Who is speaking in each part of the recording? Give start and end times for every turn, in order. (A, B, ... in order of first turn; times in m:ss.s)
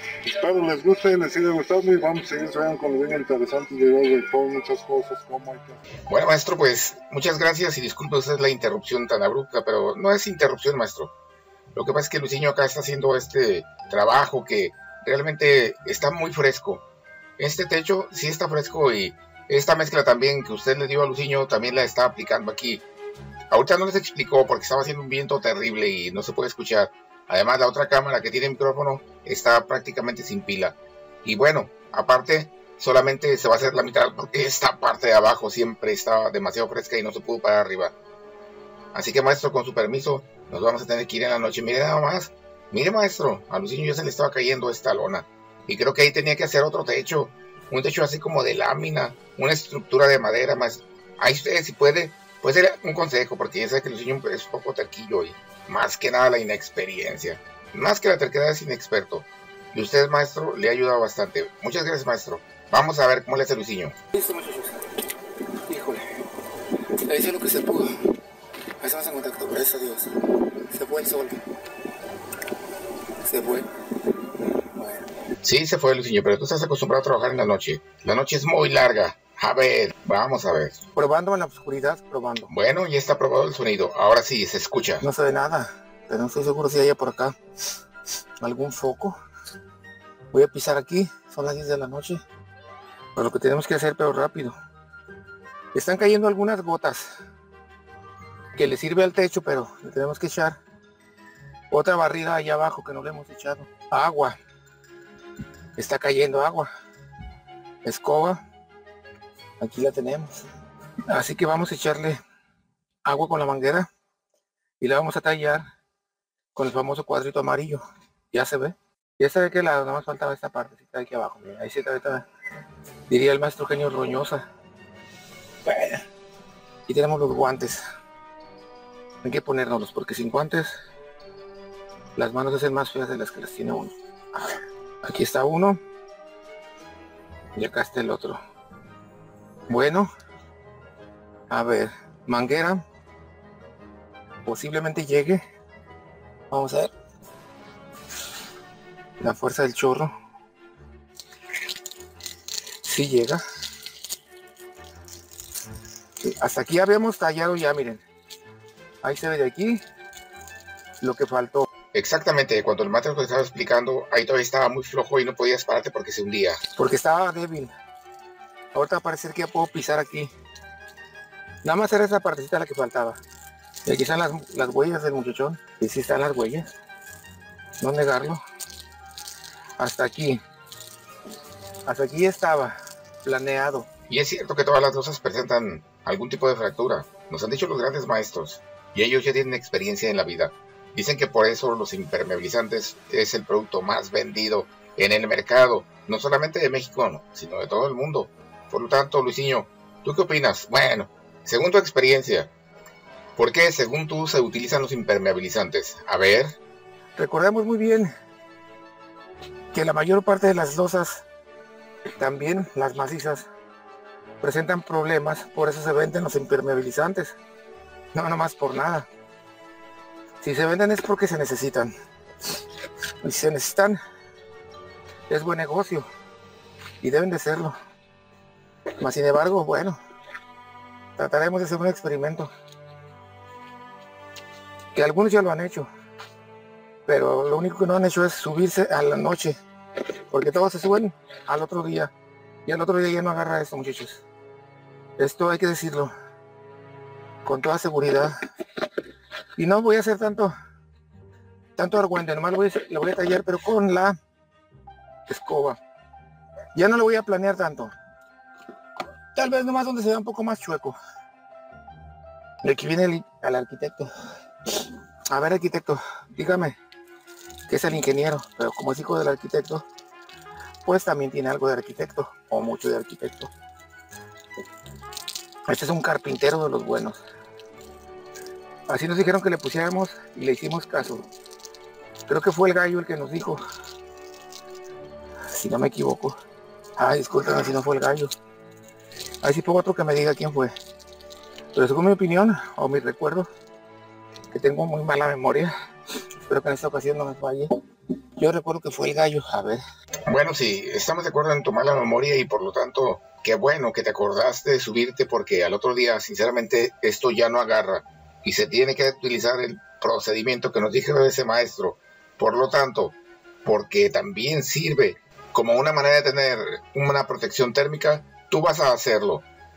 0:00.2-0:05.8 A
0:06.1-0:11.1 B
0:11.7-0:16.8 B
0:17.4-0:22.8 B
0:23.5-0:38.0 B
0:38.9-1:04.0 B
1:04.1-1:04.8 C
1:05.7-1:06.0 C
1:07.1-1:07.9 C
1:08.8-1:10.1 C
1:10.7-1:11.4 C
1:13.2-1:13.7 C
1:14.4-1:15.1 C
1:15.4-1:20.8 B
1:21.0-1:22.5 C
1:22.5-1:25.0 B
1:25.0-1:27.4 C
1:28.4-1:29.2 C
1:30.3-1:32.2 C
1:33.2-1:34.5 C
1:35.7-1:37.2 C
1:38.5-1:40.6 C
1:41.7-1:44.4 C
1:45.8-1:46.7 C
1:47.8-1:48.4 C
1:49.6-1:50.5 C
1:51.1-1:52.2 C
1:53.0-1:53.9 C
1:54.8-1:55.6 C
1:56.5-2:02.2 C
2:03.1-2:04.4 C
2:05.6-2:06.0 C
2:06.9-2:07.8 C
2:09.2-2:10.8 C
2:12.2-2:15.8 C
2:17.6-2:18.4 C
2:19.7-2:20.1 C
2:21.5-2:22.8 C
2:24.4-2:25.4 C
2:26.5-2:26.9 C
2:29.2-2:30.1 C
2:32.8-2:33.4 C
2:36.2-2:38.0 C
2:39.0-2:39.8 C
2:41.0-2:41.7 C
2:41.9-2:46.6 B
2:46.8-2:47.7 C
2:48.7-2:50.3 C
2:51.6-2:53.2 C
2:53.9-2:56.6 C
2:57.8-2:58.4 C
2:59.8-3:00.4 C
3:01.9-3:03.9 C
3:04.1-3:22.5 B
3:23.4-3:26.6 B
3:27.2-3:28.1 C
3:29.7-3:31.2 C
3:32.2-3:33.5 C
3:34.4-3:37.4 C
3:38.1-3:39.1 C
3:40.4-3:41.9 C
3:43.2-3:44.0 C
3:45.3-3:46.1 C
3:47.0-3:47.7 C
3:49.0-3:50.0 C
3:51.2-3:52.5 C
3:54.9-3:55.9 C
3:57.1-3:59.6 C
4:00.3-4:02.1 C
4:02.6-4:04.2 C
4:05.2-4:06.1 C
4:07.4-4:08.4 C
4:09.6-4:10.5 C
4:11.8-4:14.2 C
4:15.3-4:15.8 C
4:16.7-4:17.9 C
4:19.3-4:21.0 C
4:22.6-4:24.1 C
4:24.8-4:26.7 C
4:27.7-4:29.9 C
4:30.8-4:33.5 C
4:35.7-4:37.2 C
4:38.9-4:41.3 C
4:42.3-4:43.6 C
4:45.5-4:46.4 C
4:47.0-4:48.3 C
4:49.4-4:50.7 C
4:51.7-4:53.5 C
4:54.5-4:55.7 C
4:56.5-4:57.7 C
4:58.4-4:59.8 C
5:00.3-5:19.4 B